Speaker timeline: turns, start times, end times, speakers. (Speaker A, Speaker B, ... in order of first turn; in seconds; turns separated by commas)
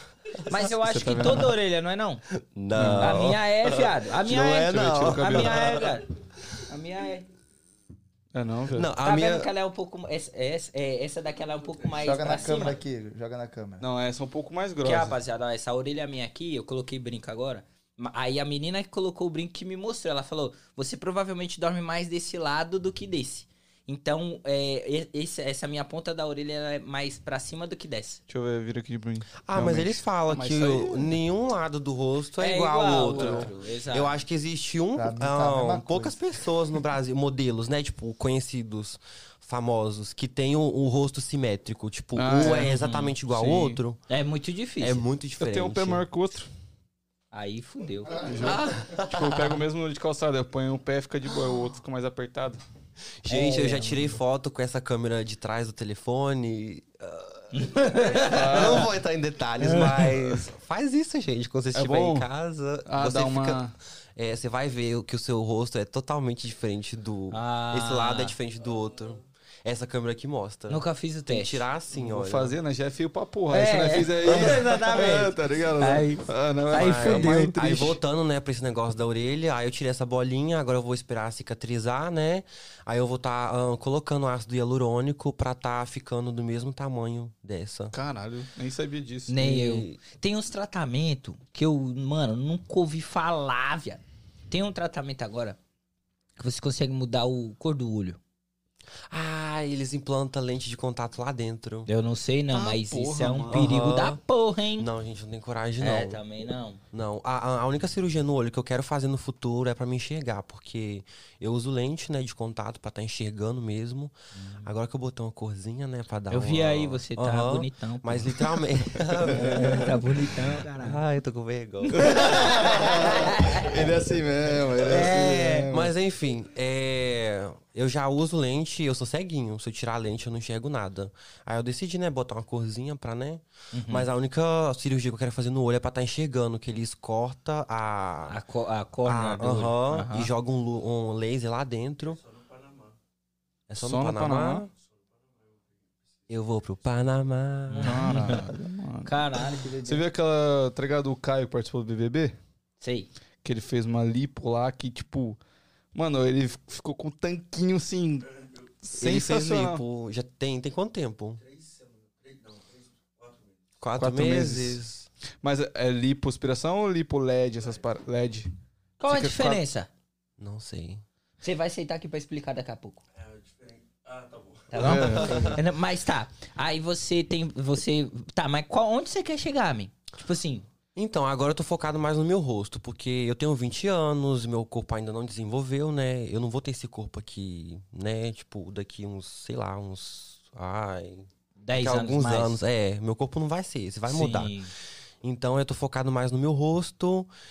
Speaker A: 0.5-2.2, Speaker B: 0.8-1.6, Speaker C: 2.3-5.9, Speaker B: 2.8-3.2, Speaker A: 3.0-6.1, Speaker B: 4.5-5.9, Speaker A: 6.7-7.3, Speaker B: 8.3-8.9, Speaker C: 8.7-9.5, Speaker A: 9.0-12.8, Speaker D: 12.0-13.8, Speaker B: 13.8-15.2, Speaker A: 14.8-28.2, Speaker B: 28.3-31.2, Speaker C: 29.5-44.0, Speaker A: 32.4-34.2, Speaker B: 33.1-33.5, Speaker D: 35.0-36.2, Speaker B: 42.2-43.8, Speaker A: 42.6-43.1, Speaker A: 44.1-45.0, Speaker C: 44.8-46.0, Speaker B: 45.4-46.5, Speaker A: 47.3-48.4, Speaker B: 48.2-52.6, Speaker C: 48.4-49.6, Speaker C: 53.2-72.6, Speaker A: 53.3-54.2, Speaker A: 57.5-58.8, Speaker B: 58.2-58.9, Speaker B: 59.7-60.4, Speaker B: 61.7-62.3, Speaker B: 62.9-63.7, Speaker A: 67.3-68.4, Speaker A: 70.7-71.7, Speaker B: 71.9-78.0, Speaker A: 73.5-77.6, Speaker C: 76.7-88.0, Speaker B: 87.9-89.4, Speaker A: 89.3-95.6, Speaker C: 89.4-90.0, Speaker A: 96.4-98.2, Speaker C: 99.1-101.9, Speaker A: 101.9-104.9, Speaker B: 102.5-103.6, Speaker C: 103.5-104.2, Speaker C: 104.8-106.2, Speaker A: 105.8-106.8, Speaker C: 106.9-120.0, Speaker A: 114.3-114.7, Speaker A: 116.3-118.4, Speaker B: 119.1-119.8, Speaker A: 119.3-121.0, Speaker C: 120.8-122.6, Speaker A: 121.9-123.8, Speaker B: 122.0-125.9, Speaker A: 124.8-125.7, Speaker C: 125.7-138.4, Speaker A: 133.7-134.1, Speaker A: 138.3-140.3, Speaker C: 139.1-142.2, Speaker C: 143.7-144.7, Speaker B: 143.8-144.7, Speaker C: 146.3-148.3, Speaker A: 147.7-148.5, Speaker B: 147.8-152.4, Speaker A: 149.0-150.0, Speaker A: 152.8-153.1, Speaker B: 153.4-155.4, Speaker B: 155.9-159.8, Speaker C: 159.0-161.4, Speaker C: 163.8-165.1, Speaker B: 164.0-164.8, Speaker B: 165.4-168.5, Speaker A: 169.0-169.9, Speaker B: 169.0-169.6, Speaker C: 170.4-171.0, Speaker A: 171.4-173.0, Speaker A: 174.7-180.7, Speaker B: 174.8-175.6, Speaker C: 174.8-175.6, Speaker C: 180.9-194.6, Speaker A: 191.6-192.6, Speaker A: 194.1-194.7, Speaker C: 195.2-197.3